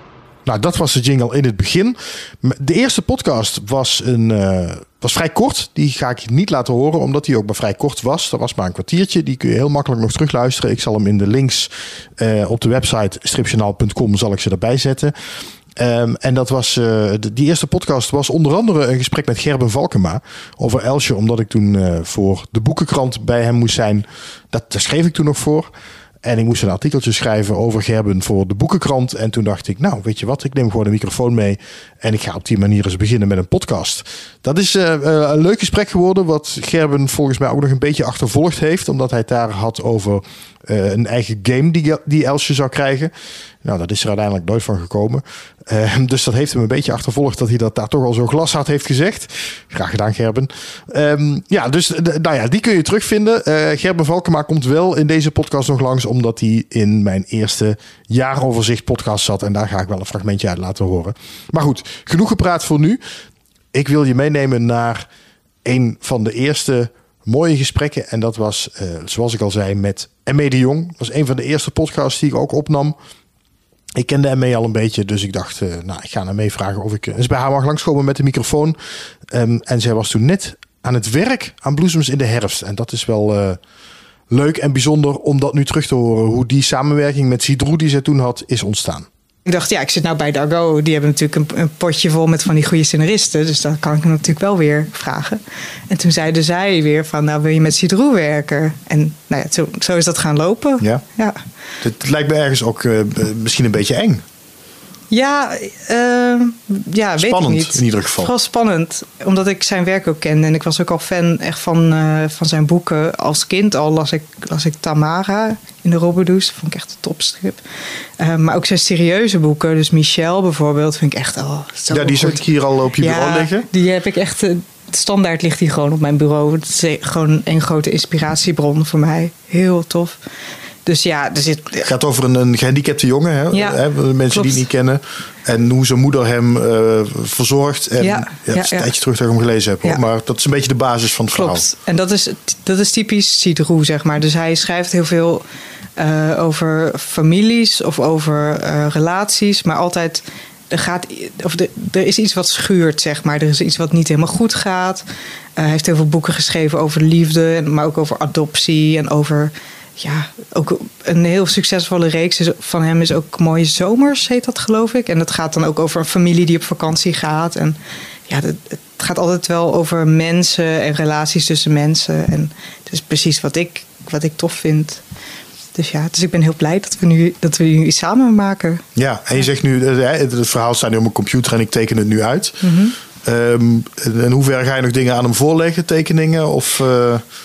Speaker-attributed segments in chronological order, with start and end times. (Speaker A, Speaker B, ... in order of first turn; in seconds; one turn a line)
Speaker A: 0.4-15.1
Speaker A: 15.8-25.7
Speaker A: 26.2-43.1
Speaker A: 43.6-63.0
Speaker A: 63.7-65.1
Speaker A: 65.6-73.0
Speaker A: 74.0-78.8
Speaker A: 79.3-83.6
Speaker A: 84.3-89.1
Speaker B: 89.5-101.4
Speaker A: 101.8-104.2
Speaker B: 105.1-117.6
Speaker A: 107.2-108.3
Speaker B: 118.2-122.4
Speaker A: 121.9-123.7
Speaker B: 123.0-130.2
Speaker B: 130.8-131.9
Speaker A: 131.8-141.6
Speaker B: 133.5-133.8
Speaker B: 134.3-134.6
Speaker B: 138.0-138.9
Speaker B: 141.3-145.4
Speaker B: 146.0-155.0
Speaker B: 155.6-167.8
Speaker B: 168.3-175.0
Speaker B: 175.7-178.8
Speaker A: 178.9-182.6
Speaker B: 182.6-182.9
Speaker A: 183.2-187.2